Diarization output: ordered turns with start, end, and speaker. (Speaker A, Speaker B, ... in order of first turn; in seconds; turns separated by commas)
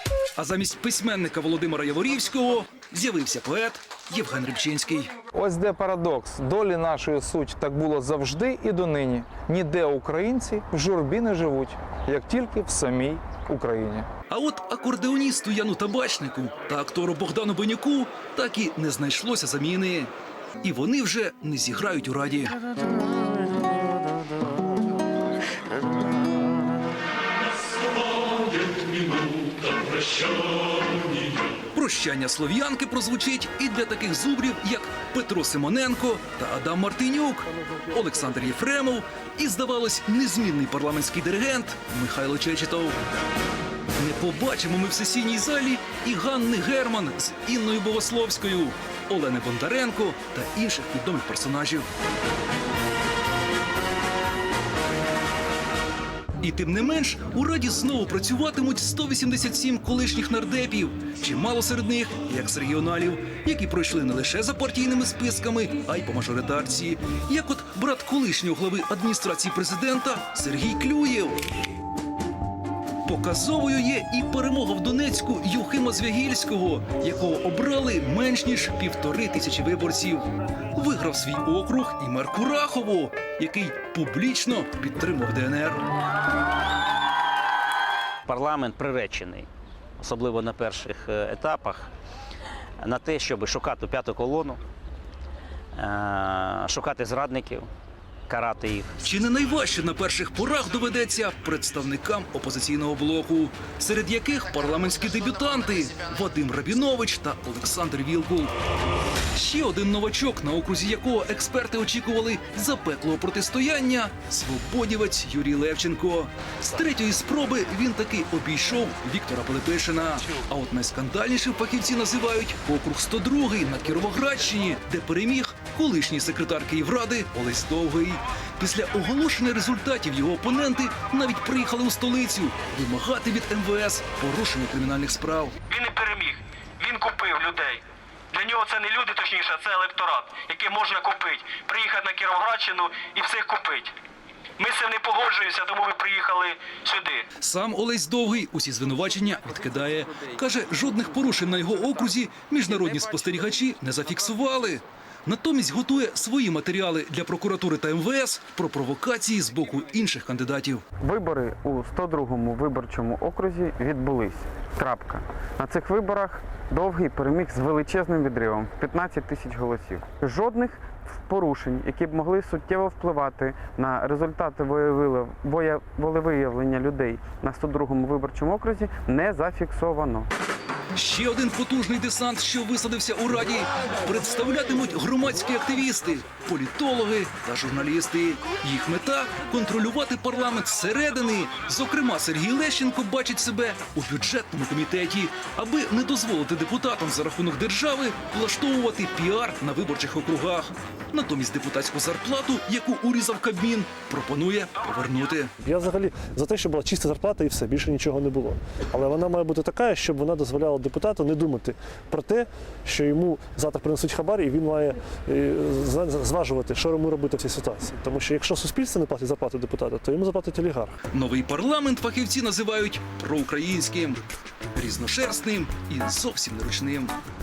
Speaker A: 0.3-5.1, Speaker B: 5.3-14.1, Speaker A: 14.3-20.1, Speaker A: 20.6-22.5, Speaker C: 27.6-30.2, Speaker A: 31.7-43.0, Speaker A: 44.0-51.9, Speaker A: 56.4-71.4, Speaker A: 73.0-85.8, Speaker D: 88.3-89.5, Speaker D: 90.0-91.9, Speaker D: 92.8-94.6, Speaker D: 95.8-97.7, Speaker D: 98.3-99.0, Speaker A: 99.0-108.5, Speaker A: 109.3-135.6, Speaker E: 135.7-137.8, Speaker E: 138.3-143.9, Speaker E: 144.6-147.2, Speaker A: 147.4-160.8, Speaker F: 161.0-180.3, Speaker A: 180.9-205.5, Speaker C: 205.6-220.9, Speaker A: 221.1-224.2, Speaker A: 224.7-227.1